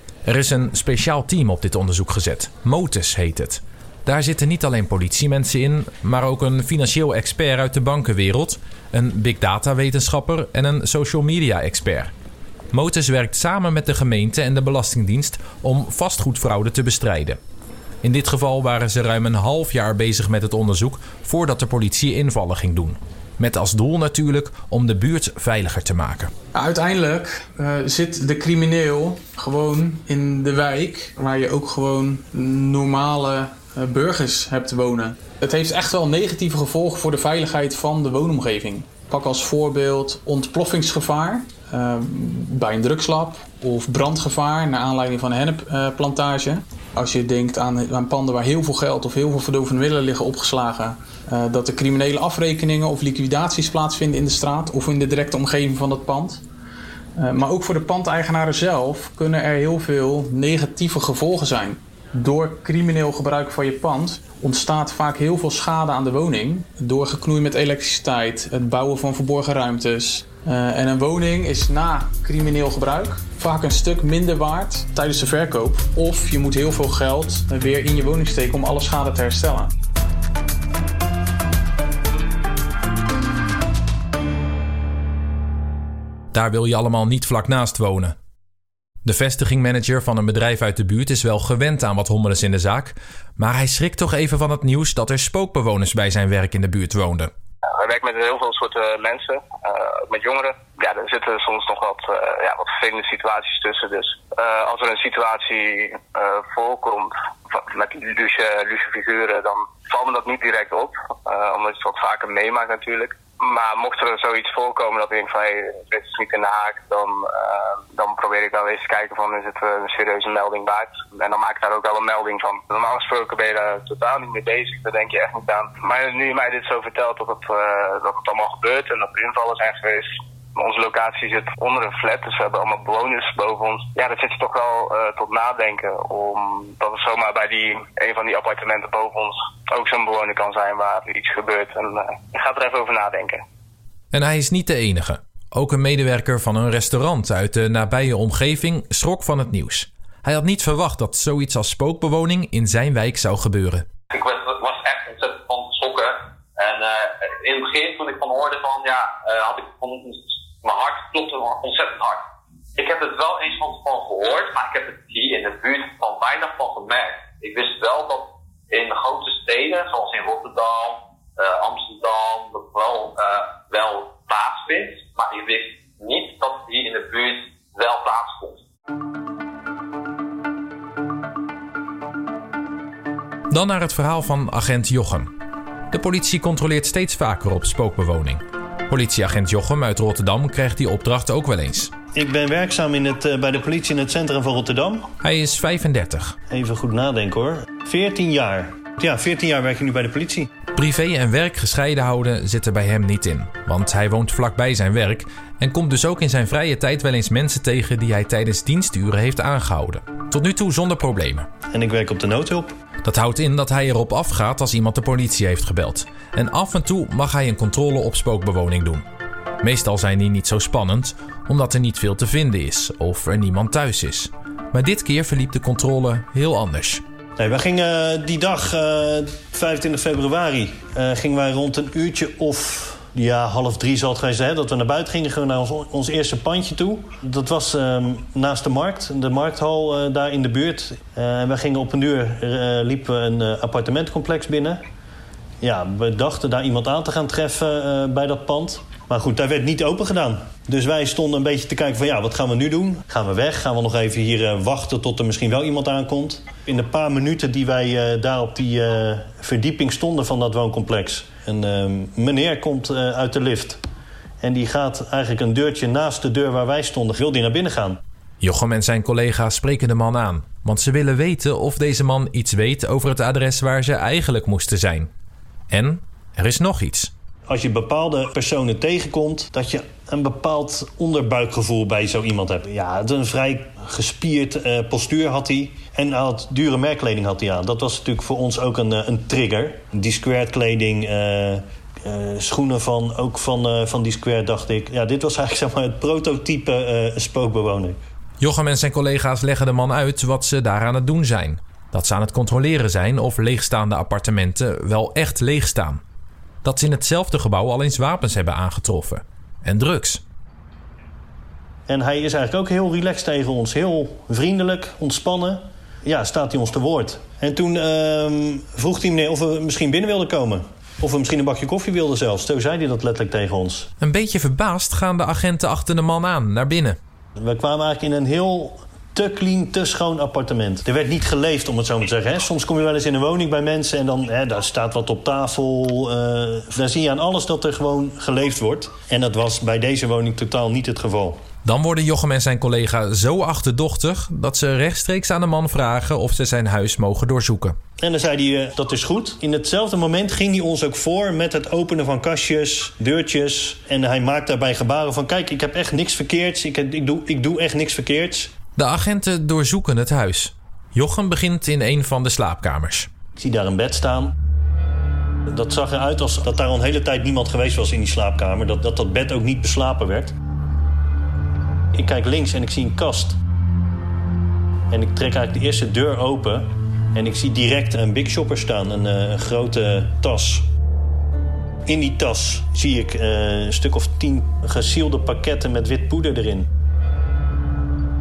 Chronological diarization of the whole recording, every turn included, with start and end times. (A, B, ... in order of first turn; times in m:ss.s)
0:00.3-0:12.1 A
0:12.7-0:17.4 A
0:18.0-0:26.3 A
0:26.5-0:56.4 B
0:57.2-1:19.7 B
1:26.3-1:28.2 A
1:29.0-1:37.3 A
1:37.8-2:23.4 C
2:24.1-2:33.9 A
2:34.1-2:42.2 D
2:42.8-2:58.6 D
3:03.5-3:05.3 A
3:05.9-3:11.9 A
3:12.1-3:15.1 E
3:15.2-3:16.4 A
3:16.5-3:20.5 E
3:20.8-3:31.5 A
3:31.7-3:32.8 E
3:33.0-3:39.1 A
3:39.6-3:47.0 A
3:47.4-4:04.8 E
4:05.6-4:23.8 E
4:24.4-4:28.0 E
4:28.4-4:35.1 A
4:35.7-4:37.1 A
4:37.5-4:58.0 E
4:58.4-5:06.0 A
5:06.6-5:10.2 A
5:11.9-5:23.9 E
5:24.0-5:27.0 A
5:27.4-5:41.4 E
5:41.6-5:47.8 A
5:48.0-5:58.5 E
5:58.8-6:03.1 A
6:03.4-6:04.3 E
6:05.5-6:10.3 E
6:11.9-6:13.4 E
6:14.9-6:20.7 E
6:21.9-6:26.7 E